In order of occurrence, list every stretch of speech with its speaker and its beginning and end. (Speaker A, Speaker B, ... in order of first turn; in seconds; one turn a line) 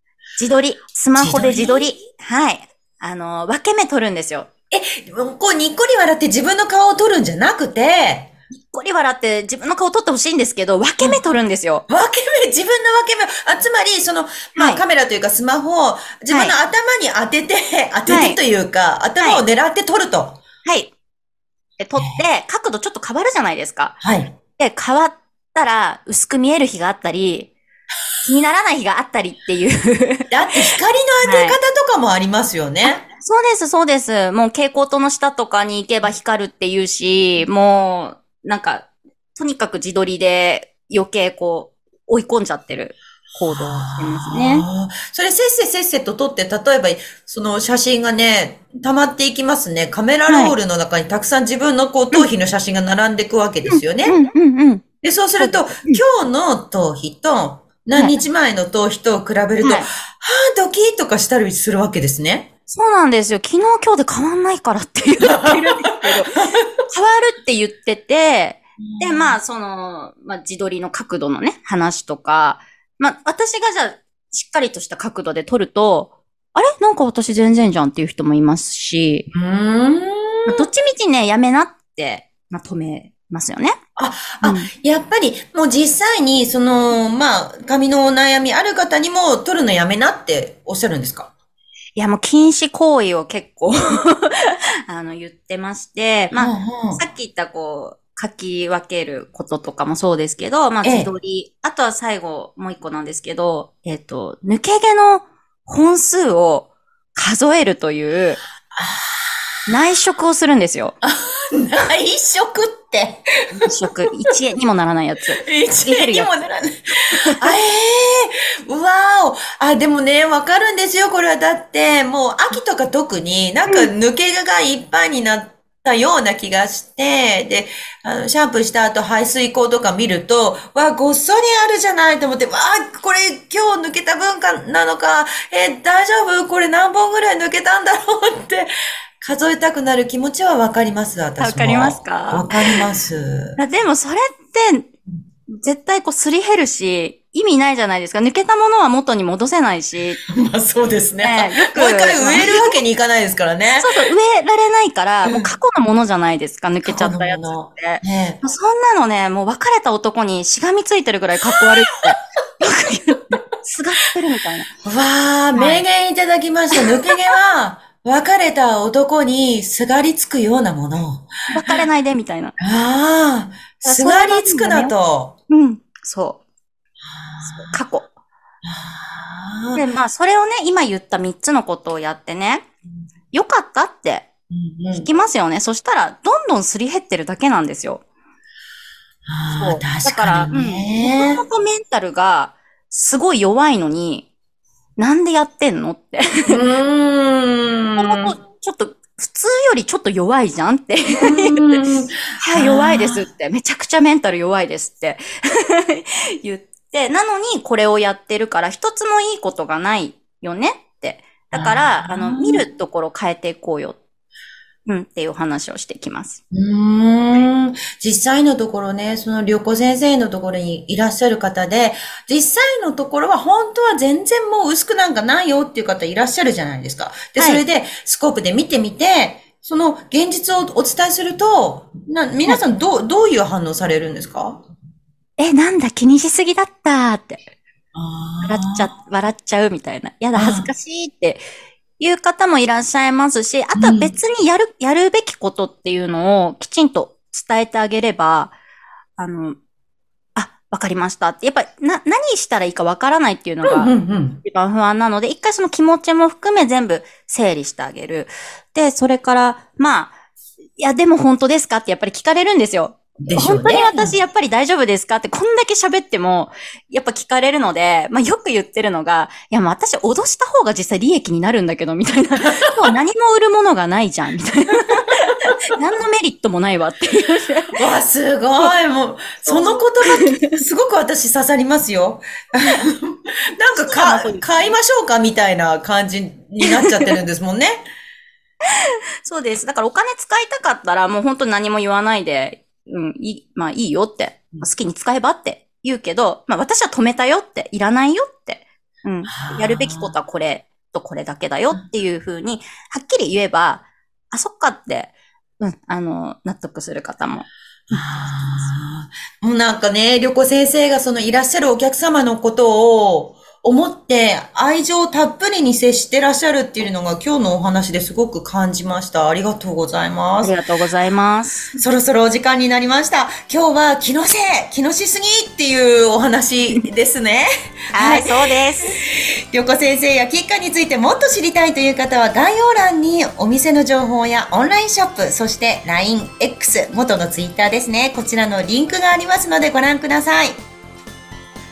Speaker A: 0.4-4.5
Speaker B: 1.1-2.0
Speaker B: 4.7-8.3
Speaker A: 8.6-11.8
Speaker B: 11.9-20.4
Speaker A: 14.5-14.8
Speaker A: 16.3-16.5
Speaker A: 18.1-18.4
Speaker A: 19.2-19.4
Speaker A: 20.6-20.9
Speaker A: 21.8-24.0
Speaker B: 21.9-22.2
Speaker B: 24.0-24.3
Speaker A: 24.6-27.5
Speaker A: 28.2-30.6
Speaker B: 30.3-33.0
Speaker A: 31.2-31.6
Speaker A: 33.1-44.6
Speaker B: 43.5-54.2
Speaker A: 50.3-50.5
Speaker A: 53.6-54.8
Speaker B: 55.0-62.5
Speaker A: 55.4-56.0
Speaker A: 59.6-59.9
Speaker A: 62.7-66.4
Speaker B: 65.2-66.7
Speaker A: 66.9-79.3
Speaker B: 68.8-69.4
Speaker B: 79.3-80.7
Speaker A: 80.5-83.8
Speaker B: 84.0-91.3
Speaker A: 84.4-84.7
Speaker A: 92.0-108.4
Speaker B: 96.3-97.0
Speaker B: 100.8-101.1
Speaker B: 108.7-109.3
Speaker A: 109.7-110.9
Speaker B: 111.0-113.7
Speaker A: 113.5-116.3
Speaker B: 115.4-116.8
Speaker B: 117.4-138.7
Speaker B: 139.2-143.6
Speaker A: 141.4-142.8
Speaker A: 143.6-144.9
Speaker A: 145.6-150.2
Speaker B: 150.3-154.0
Speaker A: 151.2-152.8
Speaker A: 153.8-164.7
Speaker B: 155.2-155.5
Speaker B: 156.8-158.4
Speaker B: 164.8-171.8
Speaker A: 165.5-165.8
Speaker A: 166.8-167.1
Speaker A: 171.5-172.5
Speaker B: 172.6-175.4
Speaker A: 173.8-174.9
Speaker A: 175.5-176.4
Speaker B: 177.0-177.8
Speaker A: 177.4-178.1
Speaker B: 178.6-179.8
Speaker A: 179.7-182.7
Speaker A: 183.3-184.3
Speaker B: 184.5-185.1
Speaker A: 184.9-188.0
Speaker B: 189.2-191.4
Speaker A: 189.5-194.3
Speaker A: 195.0-196.6
Speaker B: 196.5-198.4
Speaker A: 198.0-201.8
Speaker B: 201.2-203.2
Speaker A: 202.4-214.0
Speaker B: 211.5-212.7
Speaker A: 214.8-216.4
Speaker B: 216.5-234.6
Speaker A: 227.4-227.6
Speaker A: 235.4-237.4
Speaker B: 237.9-238.9
Speaker A: 238.4-241.4
Speaker B: 240.3-240.7
Speaker A: 242.0-248.5
Speaker B: 243.8-244.1
Speaker A: 249.2-249.6
Speaker A: 250.3-253.9
Speaker B: 253.6-254.4
Speaker A: 254.4-260.1
Speaker A: 260.8-277.8
Speaker B: 263.2-264.2
Speaker B: 272.4-272.9
Speaker B: 277.8-287.8
Speaker A: 279.4-280.5
Speaker A: 283.7-284.8
Speaker A: 286.6-287.1
Speaker A: 289.2-308.7
Speaker B: 299.3-300.1
Speaker B: 307.9-320.6
Speaker A: 320.4-321.7
Speaker B: 321.8-340.6
Speaker A: 327.9-329.0